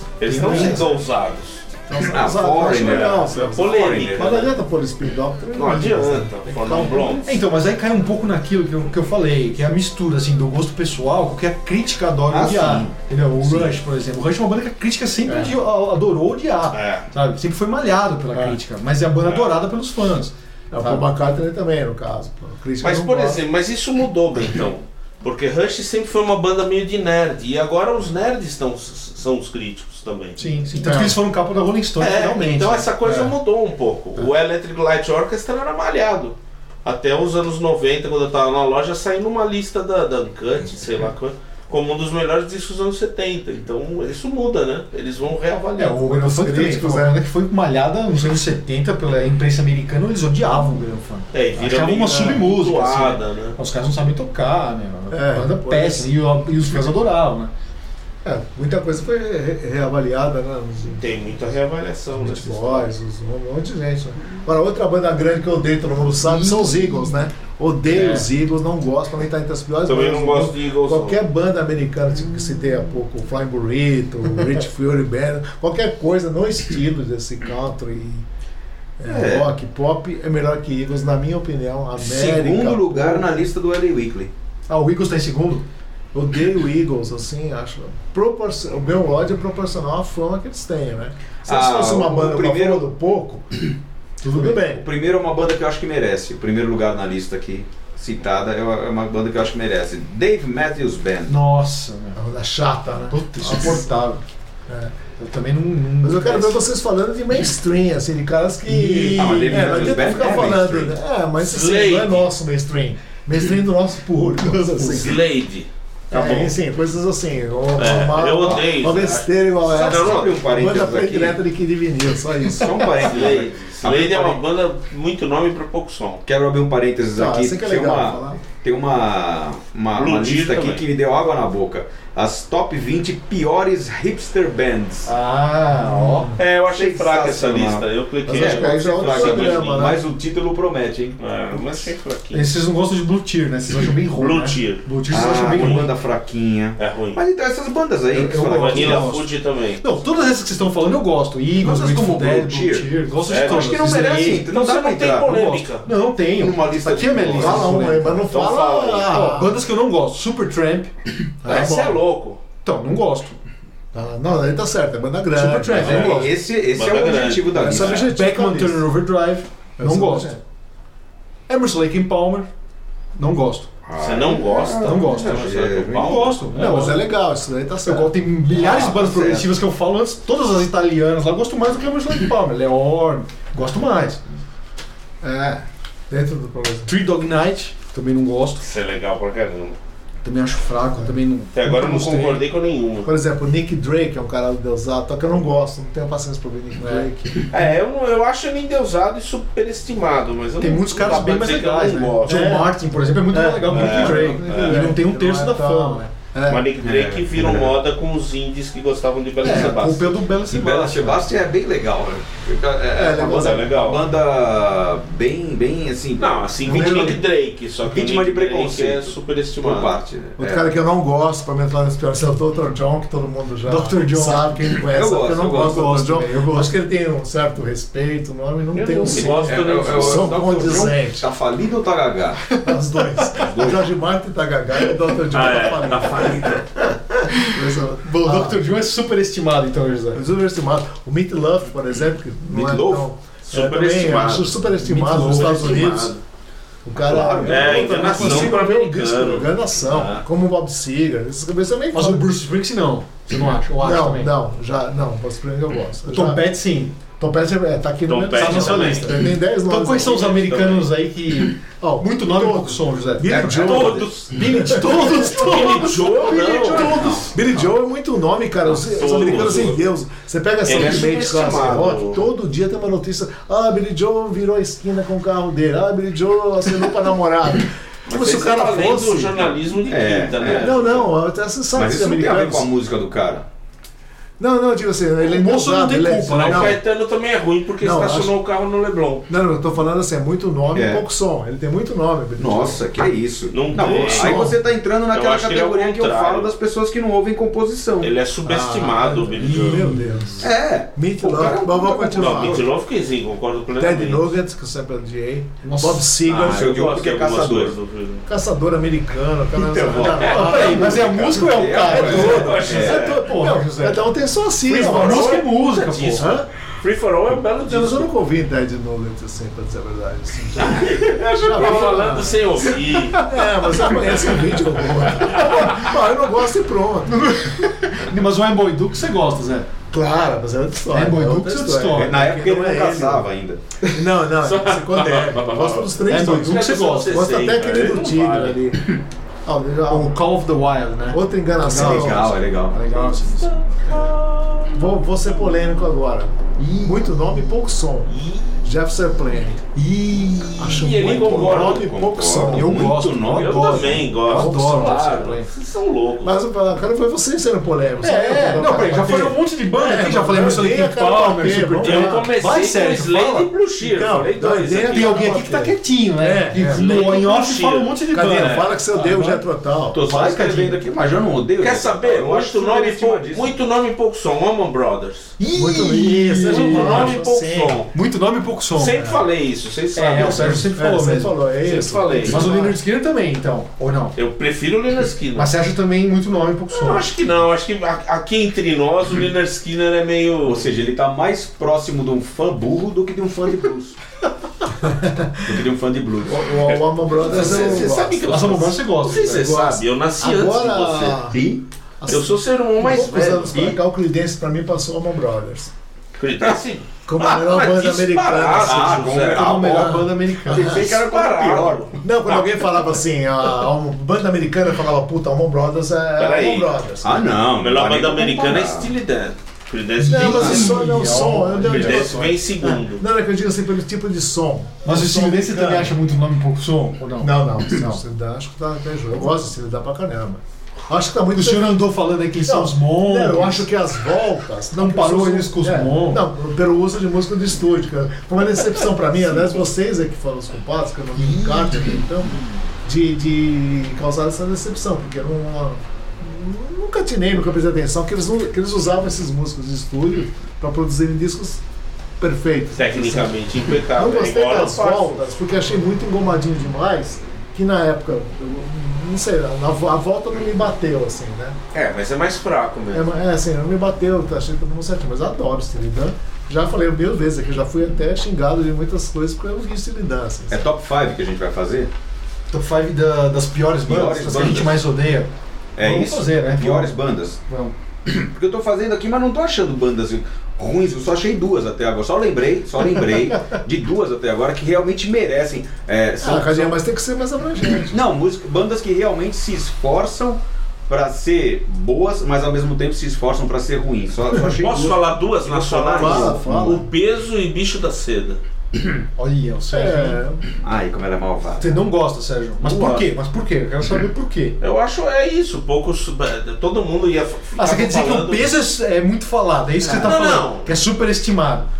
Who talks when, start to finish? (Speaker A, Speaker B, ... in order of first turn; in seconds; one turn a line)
Speaker A: 0.2-1.6
Speaker B: 0.3-0.9
Speaker C: 0.3-0.8
Speaker C: 1.9-7.3
Speaker D: 2.0-4.5
Speaker A: 2.7-4.5
Speaker A: 5.5-7.3
Speaker B: 7.2-21.0
Speaker D: 12.3-13.7
Speaker C: 15.2-15.5
Speaker A: 16.7-17.1
Speaker C: 18.3-18.6
Speaker A: 19.2-19.6
Speaker C: 20.7-23.4
Speaker A: 22.8-30.4
Speaker B: 30.4-32.9
Speaker C: 30.8-31.2
Speaker A: 32.0-46.2
Speaker B: 45.8-57.5
Speaker C: 46.0-47.2
Speaker A: 51.3-53.6
Speaker C: 52.1-52.4
Speaker C: 55.1-56.1
Speaker C: 58.2-61.2
Speaker A: 61.0-62.9
Speaker C: 62.2-78.2
Speaker B: 66.2-67.1
Speaker B: 67.9-68.2
Speaker A: 69.8-71.2
Speaker C: 79.0-83.4
Speaker D: 79.0-79.5
Speaker D: 82.0-84.3
Speaker B: 84.7-85.6
Speaker C: 86.1-93.6
Speaker D: 91.4-92.8
Speaker C: 94.2-94.8
Speaker D: 94.5-101.3
Speaker B: 101.3-102.2
Speaker C: 102.2-103.9
Speaker B: 103.1-104.2
Speaker C: 104.7-104.9
Speaker B: 105.2-106.6
Speaker C: 106.0-115.2
Speaker B: 108.7-110.5
Speaker D: 109.1-111.0
Speaker A: 111.4-112.3
Speaker A: 114.8-116.5
Speaker C: 116.1-123.1
Speaker A: 117.8-120.4
Speaker D: 119.7-121.4
Speaker D: 122.5-124.4
Speaker A: 123.0-126.2
Speaker D: 126.2-135.1
Speaker C: 127.1-128.4
Speaker A: 129.9-130.8
Speaker B: 135.1-136.3
Speaker C: 135.7-136.4
Speaker A: 136.4-139.9
Speaker D: 136.7-141.8
Speaker C: 138.2-140.0
Speaker A: 141.2-142.5
Speaker B: 142.3-145.9
Speaker A: 144.2-145.9
Speaker D: 145.1-149.1
Speaker A: 146.8-147.2
Speaker B: 148.1-154.6
Speaker A: 148.4-149.8
Speaker D: 151.6-155.4
Speaker A: 153.3-153.9
Speaker A: 154.4-155.8
Speaker B: 155.2-158.3
Speaker D: 156.3-157.7
Speaker C: 157.3-159.5
Speaker A: 158.3-159.2
Speaker B: 159.1-160.9
Speaker C: 161.4-162.0
Speaker A: 161.4-162.4
Speaker B: 162.6-163.4
Speaker C: 163.9-166.3
Speaker B: 165.3-166.3
Speaker D: 165.7-168.1
Speaker A: 165.9-167.9
Speaker C: 167.5-168.9
Speaker B: 167.7-170.4
Speaker C: 169.8-170.4
Speaker B: 171.5-172.5
Speaker B: 173.2-173.7
Speaker D: 173.8-176.3
Speaker A: 174.0-176.7
Speaker B: 174.8-177.1
Speaker C: 176.5-178.3
Speaker B: 177.8-184.2
Speaker D: 178.5-179.5
Speaker C: 185.2-186.9
Speaker B: 186.9-188.6
Speaker A: 188.6-189.8
Speaker B: 190.2-192.4
Speaker A: 191.5-193.1
Speaker C: 193.0-197.6
Speaker A: 197.3-202.6
Speaker B: 200.6-206.0
Speaker C: 202.2-206.7
Speaker A: 203.7-204.9
Speaker A: 206.5-210.2
Speaker D: 206.8-207.8
Speaker B: 209.4-211.3
Speaker D: 210.5-217.2
Speaker C: 212.9-213.8
Speaker A: 213.2-214.0
Speaker A: 216.2-220.0
Speaker C: 216.6-217.2
Speaker D: 217.8-220.7
Speaker C: 220.4-231.2
Speaker B: 223.7-224.5
Speaker D: 224.9-225.9
Speaker B: 225.5-226.7
Speaker A: 228.7-230.5
Speaker D: 229.1-232.5
Speaker C: 232.6-236.5
Speaker D: 233.4-233.9
Speaker A: 235.3-236.6
Speaker C: 237.4-238.6
Speaker B: 238.2-240.2
Speaker C: 240.1-246.1
Speaker D: 242.5-243.1
Speaker A: 243.5-246.2
Speaker B: 244.8-246.1
Speaker C: 246.8-252.3
Speaker D: 246.9-248.6
Speaker A: 247.4-250.2
Speaker B: 251.9-254.3
Speaker C: 253.7-256.5
Speaker B: 256.1-256.9
Speaker C: 257.2-260.4
Speaker A: 258.1-259.2
Speaker B: 258.3-267.3
Speaker A: 260.0-260.9
Speaker C: 261.8-279.5
Speaker D: 263.2-264.2
Speaker A: 263.5-264.3
Speaker A: 265.0-267.1
Speaker D: 266.8-267.6
Speaker A: 268.6-269.8
Speaker A: 270.6-272.2
Speaker A: 278.1-281.1
Speaker D: 279.9-280.7
Speaker C: 280.5-282.7
Speaker D: 281.7-283.4
Speaker C: 284.4-286.8
Speaker B: 285.2-286.8
Speaker A: 286.4-289.3
Speaker C: 287.8-288.3
Speaker C: 289.3-292.8
Speaker D: 290.7-291.0
Speaker D: 292.4-298.1
Speaker A: 293.5-294.5
Speaker B: 293.7-294.1
Speaker C: 293.7-294.5
Speaker A: 295.1-296.5
Speaker A: 298.0-299.9
Speaker C: 298.4-302.7
Speaker B: 299.4-300.4
Speaker D: 300.4-302.7
Speaker A: 302.1-304.3
Speaker C: 303.8-306.7
Speaker B: 305.6-306.1
Speaker A: 306.2-308.2
Speaker D: 306.3-307.8
Speaker C: 308.3-315.4
Speaker D: 309.6-313.1
Speaker A: 309.7-310.7
Speaker B: 310.2-314.0
Speaker A: 311.9-313.2
Speaker B: 314.7-316.3
Speaker A: 314.7-318.1
Speaker C: 316.2-316.5
Speaker C: 317.7-327.2
Speaker A: 320.6-323.3
Speaker A: 325.3-325.7
Speaker B: 327.1-329.7
Speaker C: 329.9-333.2
Speaker B: 330.9-332.3
Speaker D: 331.9-333.6
Speaker C: 333.8-340.1
Speaker A: 334.4-338.6
Speaker B: 336.1-337.3
Speaker B: 339.9-343.6
Speaker C: 341.1-342.3
Speaker D: 341.7-342.8
Speaker A: 342.9-345.3
Speaker C: 344.7-349.7
Speaker B: 346.6-347.1
Speaker A: 348.1-348.5
Speaker B: 349.7-350.9
Speaker C: 350.6-352.9
Speaker A: 350.6-351.9
Speaker D: 351.0-354.1
Speaker B: 352.4-355.5
Speaker A: 353.3-356.3
Speaker C: 354.3-354.6
Speaker C: 356.2-362.3
Speaker B: 358.0-363.5
Speaker A: 361.8-365.3
Speaker C: 363.8-367.2
Speaker B: 364.8-369.4
Speaker A: 366.6-368.0
Speaker C: 368.1-370.0
Speaker D: 369.9-373.6
Speaker B: 370.0-370.8
Speaker A: 371.6-375.3
Speaker B: 375.4-377.2
Speaker C: 375.5-377.8
Speaker A: 376.4-377.9
Speaker B: 377.9-379.1
Speaker A: 378.8-380.6
Speaker B: 379.9-381.4
Speaker C: 380.2-382.8
Speaker A: 381.6-382.5
Speaker B: 382.2-384.1
Speaker A: 384.1-385.5
Speaker B: 385.4-387.1
Speaker A: 386.7-390.7
Speaker D: 390.4-394.0
Speaker C: 394.8-395.5
Speaker D: 395.4-397.9
Speaker C: 396.2-398.4
Speaker A: 397.1-401.3
Speaker B: 398.2-399.8
Speaker C: 400.2-405.7
Speaker A: 402.1-403.8
Speaker A: 406.2-409.5
Speaker C: 407.1-410.9
Speaker D: 408.6-411.9
Speaker B: 409.2-410.9
Speaker A: 410.5-412.8
Speaker C: 412.0-417.4
Speaker A: 416.1-416.7
Speaker D: 417.0-418.9
Speaker A: 417.6-420.9
Speaker C: 420.0-425.9
Speaker B: 420.0-422.4
Speaker D: 420.4-420.7
Speaker A: 421.6-423.0
Speaker B: 424.8-428.0
Speaker C: 427.2-451.6
Speaker B: 431.3-433.7
Speaker B: 434.7-436.2
Speaker B: 441.1-442.0
Speaker C: 452.2-453.3
Speaker A: 452.8-455.2
Speaker C: 453.9-461.6
Speaker A: 461.7-463.1
Speaker C: 462.9-470.6
Speaker D: 470.5-471.9
Speaker B: 472.5-476.9
Speaker D: 473.9-474.8
Speaker D: 475.8-477.4
Speaker B: 477.5-477.7
Speaker D: 478.1-486.8
Speaker C: 486.2-488.0
Speaker D: 487.9-496.6
Speaker A: 494.5-498.4
Speaker C: 495.9-496.9
Speaker B: 499.2-500.2
Speaker C: 499.7-500.4
Speaker D: 500.6-501.7
Speaker B: 501.6-504.6
Speaker A: 502.6-503.1
Speaker A: 504.6-508.6
Speaker B: 507.6-511.7
Speaker A: 509.8-510.7